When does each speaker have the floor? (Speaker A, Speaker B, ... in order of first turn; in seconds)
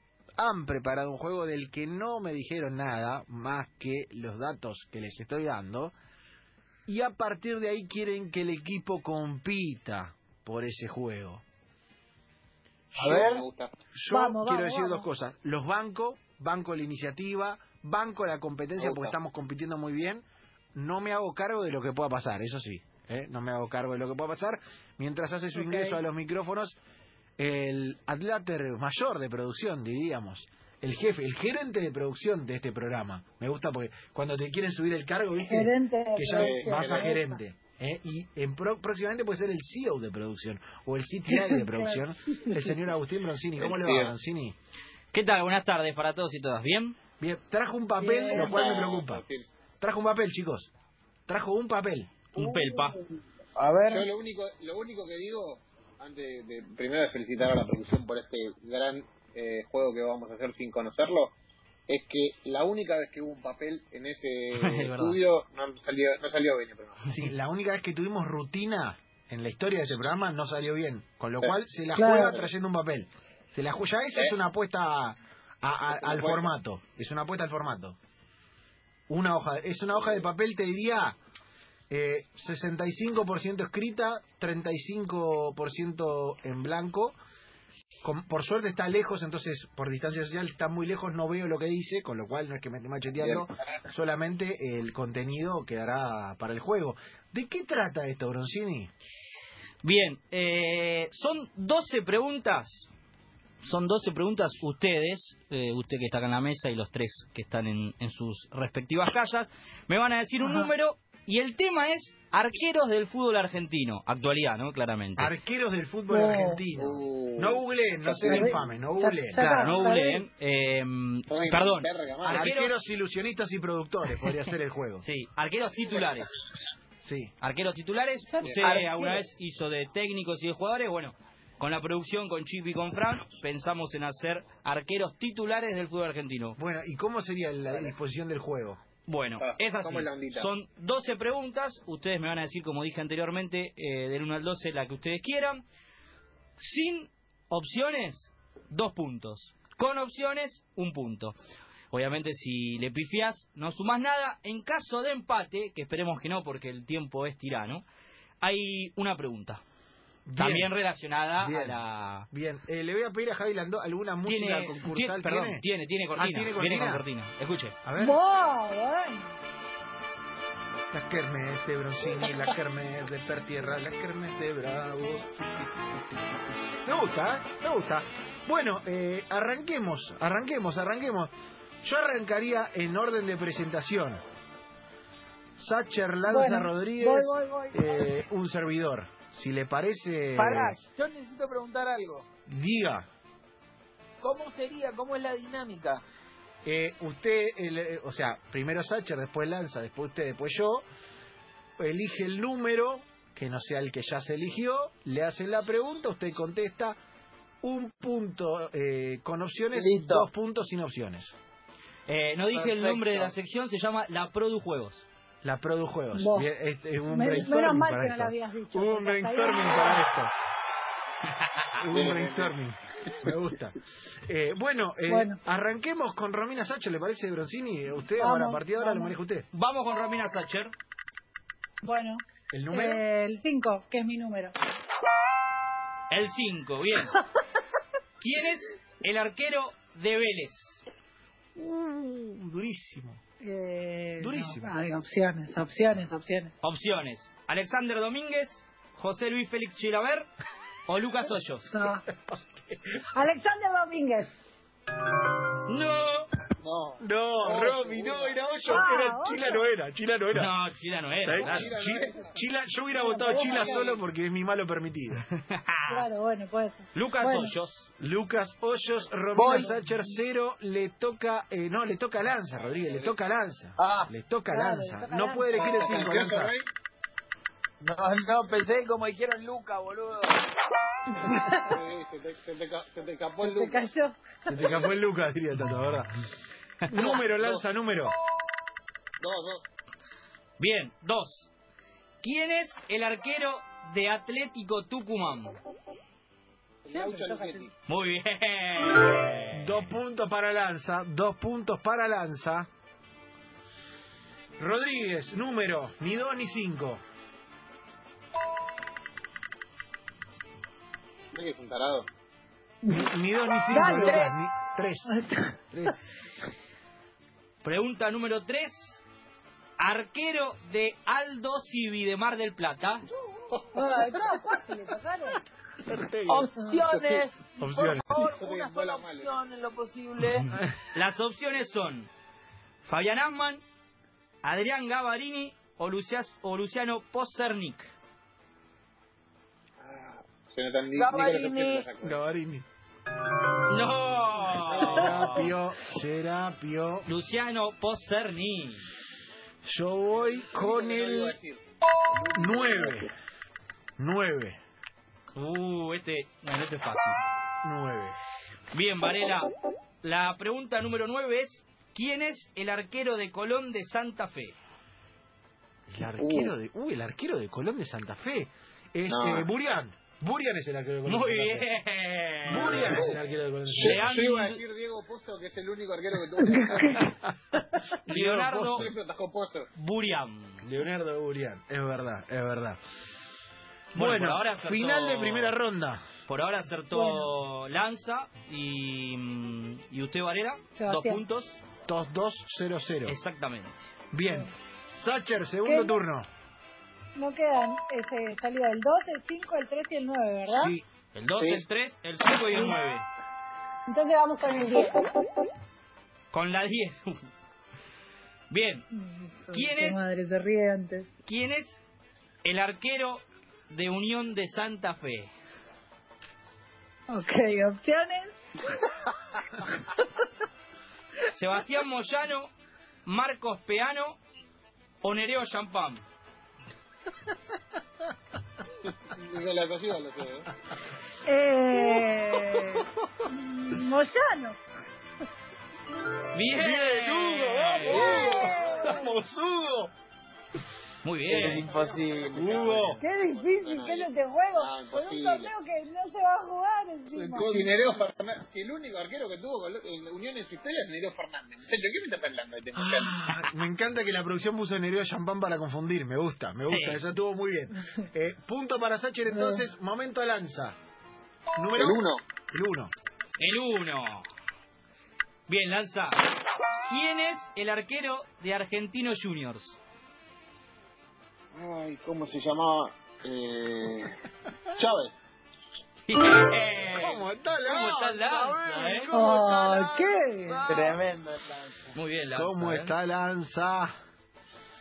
Speaker A: 0.4-6.0, 6.9-11.4, 12.9-26.8, 27.4-44.5, 47.2-49.2, 49.8-50.7, 51.3-52.2, 67.1-78.0, 79.1-81.2, 81.9-87.2, 88.0-98.9, 115.2-119.8, 122.2-125.0, 127.0-127.3, 136.6-138.8, 160.3-160.7, 161.4-161.8, 162.3-167.1, 167.8-168.2, 170.9-181.3, 181.8-184.2, 185.6-190.8, 192.5-193.1, 196.7-200.8, 201.8-207.0, 207.6-211.3, 215.4-220.3, 221.8-229.5, 232.5-233.1, 241.6-243.2, 244.2-244.7, 251.8-253.1, 257.0-260.5, 261.2-265.2, 268.0-276.5, 284.5-286.1, 286.9-288.1, 299.5-302.7, 304.6-307.0, 312.9-315.2, 315.7-316.0, 325.8-326.5, 327.6-328.2, 342.0-342.7, 344.7-347.1, 349.6-351.4, 352.3-353.1, 354.0-354.6, 357.6-358.2, 365.9-371.7, 372.4-374.1, 378.0-378.9, 380.6-382.8, 383.9-386.0, 391.9-393.2, 394.1-396.3, 400.5-400.8, 436.6-439.9, 442.3-443.0, 452.7-460.8, 461.6-462.0, 462.5-462.9, 476.9-480.2, 482.3-483.9
Speaker B: 13.0-13.7, 18.8-19.1, 36.3-37.1, 43.6-44.1, 48.3-49.5, 53.9-61.3, 61.9-67.1, 74.1-74.4, 75.9-76.5, 93.2-93.5, 116.8-118.1, 121.3-122.5, 139.4-140.5, 172.2-172.5, 221.9-222.6, 256.6-258.5, 261.3-262.4, 263.3-264.0, 272.5-273.2, 275.6-276.7, 281.6-283.9, 287.0-287.6, 289.2-289.6, 296.9-297.7, 311.3-312.1, 323.5-323.9, 326.9-327.2, 328.3-329.4, 339.8-342.2, 350.4-351.6, 352.3-352.8, 366.2-366.5, 369.1-369.5, 372.9-373.2, 373.8-377.1, 378.7-379.7, 401.4-401.6, 429.1-430.5, 438.0-438.9, 441.4-445.5, 447.1-453.3, 461.7-462.2, 471.5-474.1, 474.8-475.1
Speaker C: 13.1-13.4, 14.1-15.1, 25.6-26.0, 35.4-37.4, 41.3-42.7, 48.0-48.6, 52.5-53.0, 72.0-72.4, 110.4-110.7, 116.1-116.6, 118.1-120.2, 128.3-129.2, 168.0-169.3, 186.2-188.1, 216.1-216.5, 217.1-220.1, 225.1-225.4, 228.2-229.2, 231.8-234.6, 243.4-246.5, 251.7-252.0, 253.1-254.4, 258.7-259.6, 262.9-263.9, 265.9-267.6, 274.5-275.9, 281.1-281.8, 283.4-284.8, 296.9-297.7, 313.7-314.3, 315.1-315.6, 323.7-325.4, 376.5-377.6, 386.9-387.3, 390.8-391.2, 395.6-396.0, 397.1-400.8, 403.9-405.1, 408.9-411.1, 417.1-418.8, 431.2-434.6, 437.9-439.1, 443.0-447.9, 459.3-459.6, 479.1-480.7
Speaker D: 45.1-47.0, 52.3-53.0, 64.5-65.2, 99.8-102.9, 103.6-115.3, 119.5-122.7, 125.0-126.4, 127.4-136.6, 139.1-145.6, 146.6-151.4, 151.9-157.8, 158.4-159.6, 160.4-162.3, 164.2-167.8, 212.1-215.1, 229.5-230.7, 236.1-237.2, 238.2-240.8, 246.6-250.3, 250.9-251.7, 255.7-256.3, 260.3-261.7, 265.4-266.1, 266.9-267.9, 290.6-291.5, 292.2-295.6, 297.9-299.9, 317.6-319.1, 319.8-323.1, 330.3-332.1, 332.8-333.6, 334.4-337.9, 343.7-345.5, 347.1-348.9, 355.4-357.3, 358.7-359.5, 360.0-364.6, 371.1-373.1, 373.7-374.6, 378.1-378.9, 379.8-380.6, 383.9-385.6, 386.3-391.6, 393.1-393.9, 401.1-403.1, 406.3-407.3, 408.5-408.9, 409.5-410.0, 411.3-411.8, 412.4-415.3, 421.3-422.5, 423.1-424.2, 425.0-426.0, 436.3-438.2, 441.0-441.7, 456.7-457.0, 463.4-464.3, 465.5-466.2, 466.9-469.8, 476.1-479.1, 481.9-482.9
Speaker E: 53.6-54.1, 128.6-128.9, 190.4-192.3, 194.2-196.0, 209.7-210.3, 212.5-213.3, 269.3-269.8, 273.8-274.1, 277.8-280.5, 313.9-314.3, 323.9-324.1, 326.3-330.5, 340.9-341.9, 441.3-442.6, 480.4-481.9